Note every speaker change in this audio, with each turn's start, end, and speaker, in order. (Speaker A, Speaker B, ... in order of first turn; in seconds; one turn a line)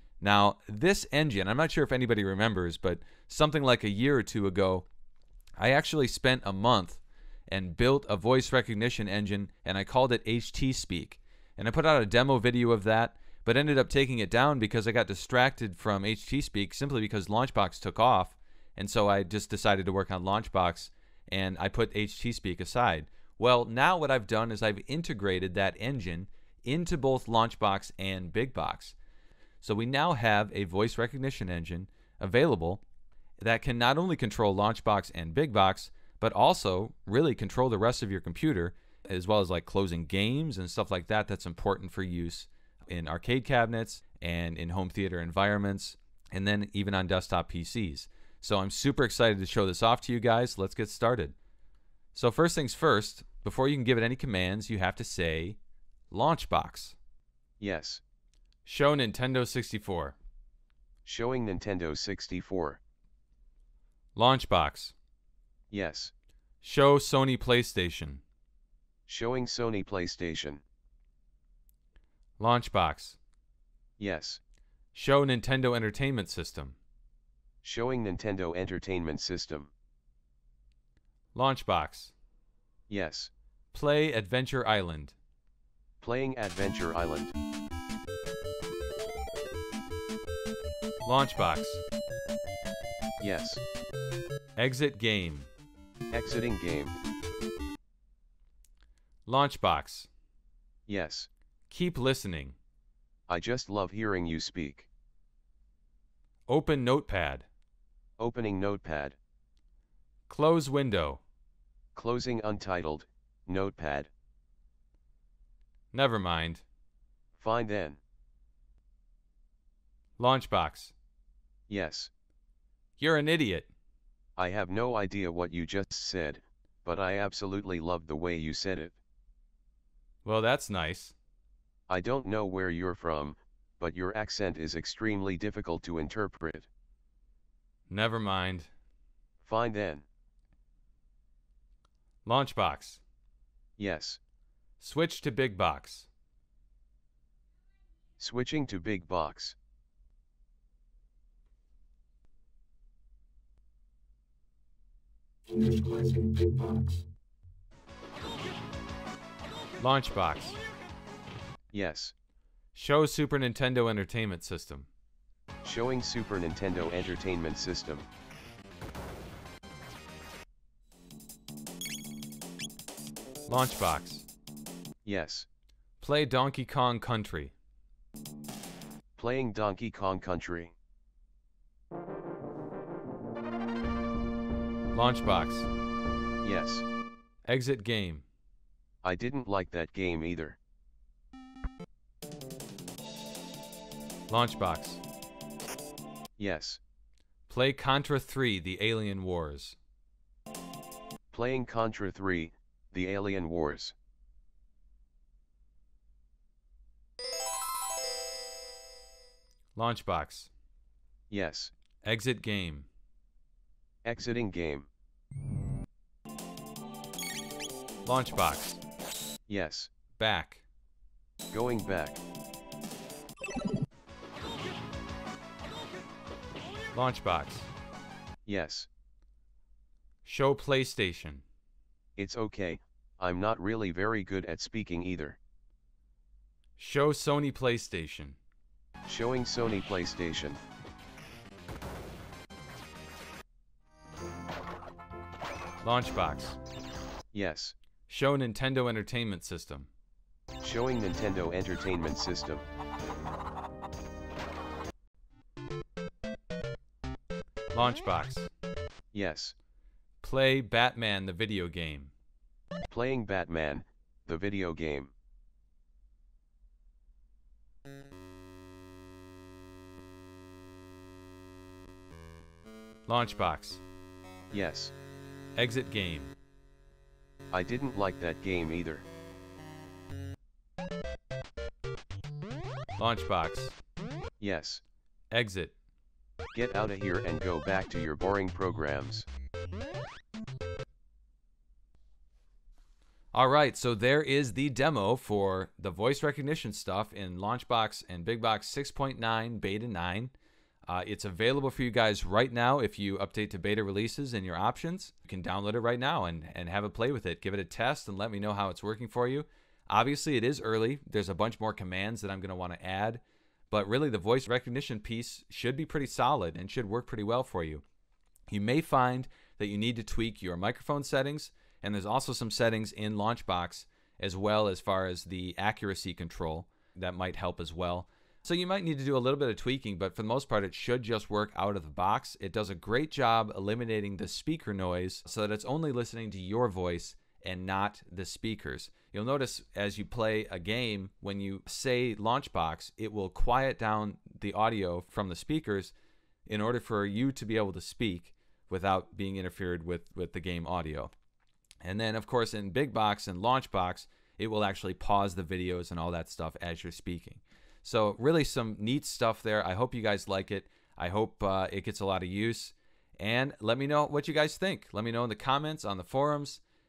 Speaker A: 0.2-4.9
Speaker A: 5.6-29.0
Speaker A: 29.6-32.8
Speaker A: 33.4-51.4
Speaker A: 52.1-55.6
Speaker A: 56.1-57.0
Speaker B: 57.6-58.0
Speaker A: 58.6-60.2
Speaker B: 61.0-62.8
Speaker A: 64.2-65.0
Speaker B: 65.7-66.1
Speaker A: 66.6-68.2
Speaker B: 69.1-70.6
Speaker A: 72.4-73.2
Speaker B: 74.0-74.4
Speaker A: 74.9-76.8
Speaker B: 77.6-79.7
Speaker A: 81.3-82.1
Speaker B: 82.9-83.3
Speaker A: 83.7-85.2
Speaker B: 86.0-87.3
Speaker A: 91.0-91.8
Speaker B: 93.2-93.6
Speaker A: 94.6-95.5
Speaker B: 96.1-96.9
Speaker A: 99.3-100.1
Speaker B: 100.9-101.3
Speaker A: 101.7-102.6
Speaker B: 103.3-104.9
Speaker A: 106.5-107.5
Speaker B: 108.2-109.2
Speaker A: 110.3-111.2
Speaker B: 112.0-114.1
Speaker A: 115.9-116.6
Speaker B: 117.4-118.0
Speaker A: 120.2-120.9
Speaker B: 121.7-122.1
Speaker A: 123.0-123.7
Speaker B: 124.4-129.0
Speaker A: 130.2-131.2
Speaker B: 131.9-136.7
Speaker A: 137.9-138.7
Speaker B: 139.4-140.0
Speaker A: 142.2-143.0
Speaker B: 143.8-144.2
Speaker A: 144.8-146.1
Speaker B: 148.2-149.6
Speaker A: 155.5-156.7
Speaker A: 159.8-160.6
Speaker B: 161.7-162.1
Speaker A: 162.7-164.9
Speaker B: 165.6-168.1
Speaker A: 173.5-174.3
Speaker B: 175.0-175.5
Speaker A: 176.0-177.5
Speaker B: 179.2-180.8
Speaker A: 184.9-185.7
Speaker B: 186.4-186.8
Speaker A: 187.5-188.2
Speaker B: 189.0-190.6
Speaker A: 194.3-195.0
Speaker B: 196.4-196.8
Speaker A: 197.5-199.8
Speaker B: 201.3-203.9
Speaker A: 209.8-210.5
Speaker B: 211.3-211.7
Speaker A: 212.0-212.9
Speaker B: 214.1-214.9
Speaker A: 218.0-218.8
Speaker B: 219.5-220.0
Speaker A: 220.0-220.7
Speaker B: 221.5-222.2
Speaker A: 226.9-227.7
Speaker B: 228.5-228.9
Speaker A: 230.2-231.4
Speaker B: 232.2-235.4
Speaker A: 236.8-238.4
Speaker B: 239.1-240.6
Speaker A: 245.8-246.6
Speaker B: 247.3-247.7
Speaker A: 248.1-249.9
Speaker B: 250.6-252.7
Speaker A: 257.7-258.5
Speaker B: 259.1-259.6
Speaker A: 260.2-262.1
Speaker B: 262.9-265.1
Speaker A: 273.1-273.8
Speaker B: 274.5-274.9
Speaker A: 275.6-276.3
Speaker B: 277.5-279.1
Speaker A: 283.0-283.8
Speaker B: 284.4-284.8
Speaker A: 285.3-285.8
Speaker B: 286.5-289.3
Speaker A: 293.3-300.3
Speaker A: 300.9-317.8
Speaker A: 318.5-345.9
Speaker A: 346.5-351.1
Speaker A: 351.8-366.6